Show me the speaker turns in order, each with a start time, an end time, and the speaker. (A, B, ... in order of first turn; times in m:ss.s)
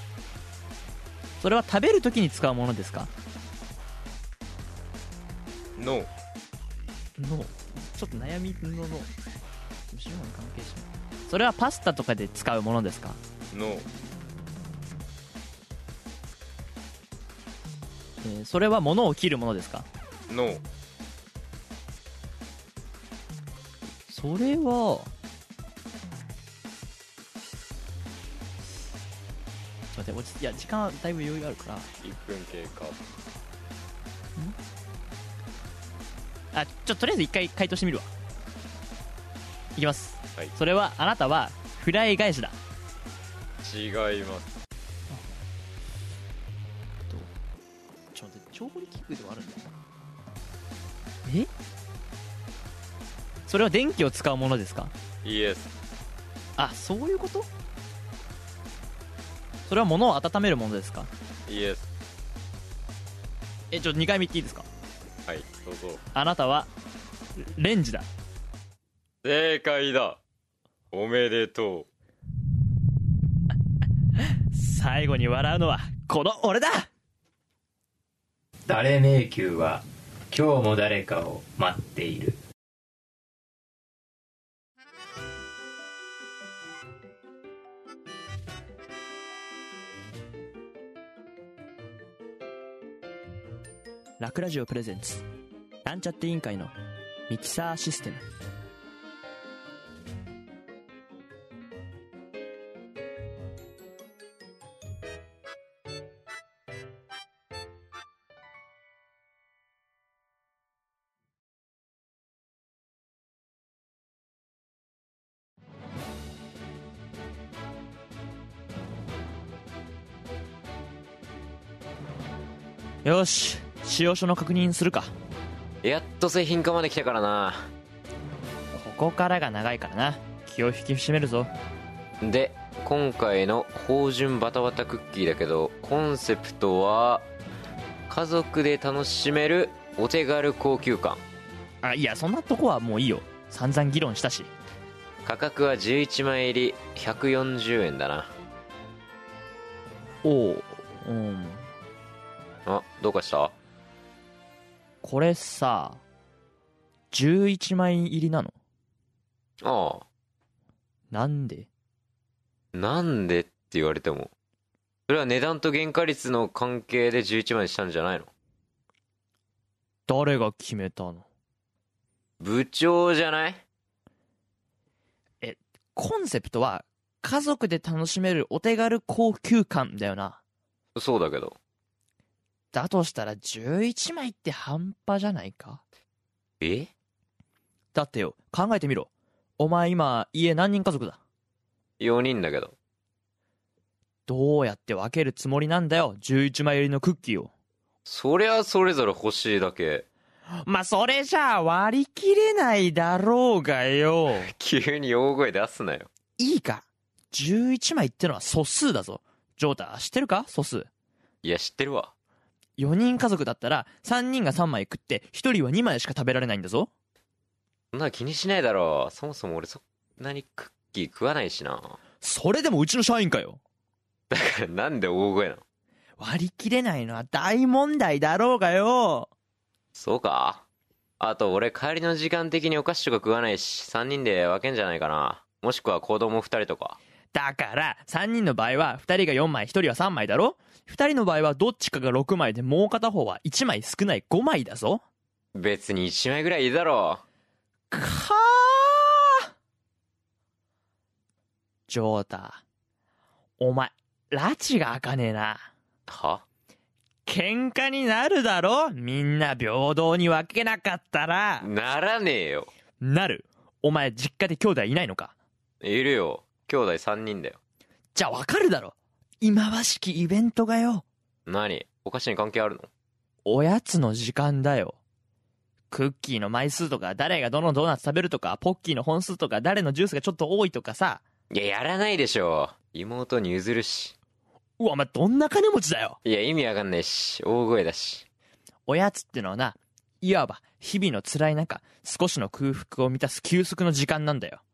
0:01.4-0:03.1 A
0:05.8-0:06.1 B
0:07.2-0:09.1 A
0:09.9-0:13.2 A
0:13.5-0:13.8 B
0:18.2-0:19.9 A
0:20.3-0:20.6 B
0:24.1-0:25.1 A
0:29.9-0:31.9 A
0:32.0-0:33.0 B
0:36.5-0:38.1 A
0:39.8-0:42.6 A
0:43.6-0:44.5 B
0:48.1-0:49.7 A
0:53.5-0:54.9 A
0:55.2-0:55.7 B
0:56.6-0:57.5 A
0:59.7-1:01.1 A
1:01.5-1:01.9 B
1:03.7-1:04.6 A
1:05.2-1:06.0 B
1:06.1-1:06.7 A
1:07.4-1:08.0 A
1:09.2-1:10.2 B
1:10.9-1:11.9 B
1:14.2-1:16.9 A
1:18.7-1:22.4 C
1:34.2-1:35.2 A
1:35.8-1:36.7 A
1:37.3-1:38.2 A
2:03.0-2:05.1 A
2:05.8-2:07.7 B
2:08.7-2:11.5 A
2:12.2-2:17.2 B
2:18.1-2:21.2 B
2:21.8-2:24.5 A
2:25.2-2:28.3 B
2:30.2-2:31.6 A
2:32.6-2:33.5 B
2:35.0-2:36.0 A
2:37.1-2:38.5 A
2:39.6-2:40.0 B
2:41.1-2:41.7 A
2:42.7-2:44.3 B
2:45.1-2:48.3 B
2:50.1-2:51.2 A
2:52.4-2:53.6 B
2:55.4-3:00.4 A
3:00.9-3:01.6 B
3:02.7-3:05.8 A
3:06.6-3:06.9 B
3:07.9-3:11.2 A
3:12.0-3:12.7 B
3:14.3-3:17.5 A
3:18.0-3:20.0 B
3:20.6-3:24.5 A
3:24.5-3:26.1 B
3:26.4-3:30.9 A
3:31.4-3:32.1 B
3:32.8-3:36.9 A
3:37.9-3:42.0 B
3:42.2-3:43.6 A
3:44.3-3:45.6 B
3:46.2-3:49.3 A
3:49.9-3:50.6 B
3:51.2-3:57.0 B
3:57.3-4:05.0 A
4:05.5-4:07.2 B
4:07.9-4:09.5 A
4:11.9-4:12.6 A
4:13.6-4:15.7 A
4:16.1-4:16.4 B
4:17.2-4:21.7 A
4:21.6-4:22.7 B
4:23.0-4:25.3 A
4:25.8-4:27.6 B
4:28.1-4:31.0 A
4:31.4-4:32.9 B
4:33.4-4:35.0 A
4:35.9-4:41.2 A
4:41.5-4:44.1 B
4:44.8-4:46.2 A
4:46.2-4:48.2 B
4:48.9-4:54.6 A